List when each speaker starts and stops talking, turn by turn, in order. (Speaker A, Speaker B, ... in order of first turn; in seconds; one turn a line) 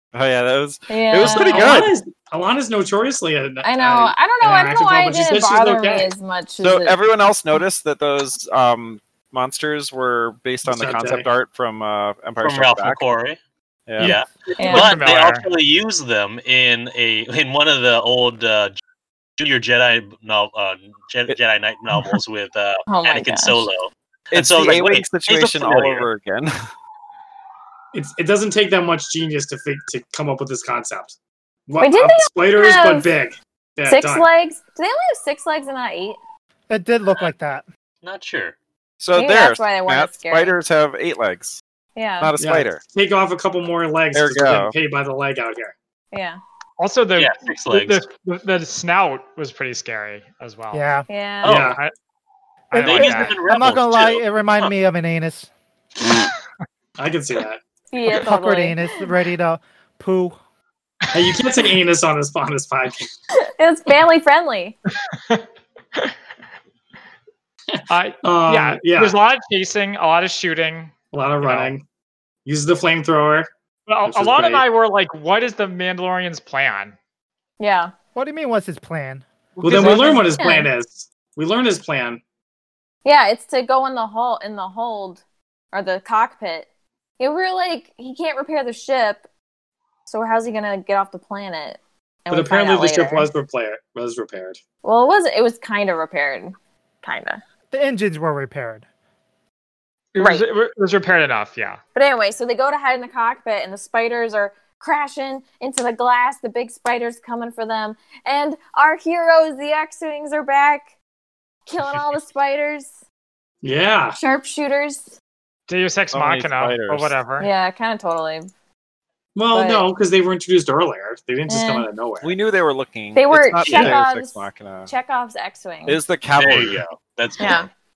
Speaker A: 0.1-1.9
Speaker B: 0.9-1.8
Speaker C: 1.2-6.1
Speaker B: 3.6-7.0
Speaker A: 6.6-13.0
Speaker C: 10.6-11.3
Speaker D: 12.4-13.4
Speaker A: 13.9-14.2
Speaker D: 14.0-18.8
Speaker E: 14.0-15.4
Speaker B: 14.6-14.9
Speaker D: 19.4-26.1
Speaker B: 22.9-23.7
Speaker A: 24.3-26.5
Speaker C: 27.9-31.2
Speaker C: 31.7-34.3
Speaker B: 31.8-33.1
Speaker B: 33.9-36.2
Speaker F: 36.7-37.7
Speaker D: 38.0-38.5
Speaker A: 39.0-41.6
Speaker B: 39.1-40.6
Speaker B: 42.0-42.3
Speaker A: 42.2-42.8
Speaker C: 42.4-45.7
Speaker A: 44.1-44.7
Speaker B: 46.1-46.4
Speaker E: 46.8-50.9
Speaker D: 47.2-48.1
Speaker F: 50.7-51.1
Speaker B: 51.1-51.7
Speaker D: 51.4-51.8
Speaker C: 51.4-51.8
Speaker E: 51.5-51.9
Speaker E: 52.7-53.5
Speaker D: 52.7-54.7
Speaker F: 53.5-55.5
Speaker C: 57.0-57.6
Speaker B: 57.9-58.9
Speaker F: 58.1-60.4
Speaker C: 61.1-63.1
Speaker B: 63.3-64.8
Speaker E: 65.1-65.4
Speaker C: 67.7-69.2
Speaker E: 67.9-71.7
Speaker C: 71.1-71.8
Speaker C: 72.5-73.5
Speaker E: 73.9-77.0
Speaker C: 74.1-74.6
Speaker B: 77.6-77.9
Speaker F: 78.2-79.2
Speaker C: 79.6-82.2
Speaker E: 79.6-80.3
Speaker A: 79.7-80.1
Speaker B: 80.3-80.7
Speaker B: 83.0-85.2
Speaker B: 85.7-86.7
Speaker B: 87.2-89.2
Speaker B: 90.1-93.3
Speaker C: 92.3-94.6
Speaker B: 94.8-97.4
Speaker F: 97.7-98.8
Speaker E: 100.2-101.8
Speaker B: 100.2-100.4
Speaker B: 102.0-110.9
Speaker B: 111.7-112.9
Speaker C: 113.6-114.2
Speaker B: 114.2-115.2
Speaker E: 115.7-117.5
Speaker A: 116.1-117.1
Speaker B: 117.4-118.5
Speaker C: 119.4-122.4
Speaker B: 119.5-119.9
Speaker B: 121.5-121.9
Speaker A: 122.2-124.9
Speaker B: 123.1-126.0
Speaker D: 123.7-124.0
Speaker A: 125.9-126.8
Speaker D: 126.4-127.7
Speaker B: 127.4-127.7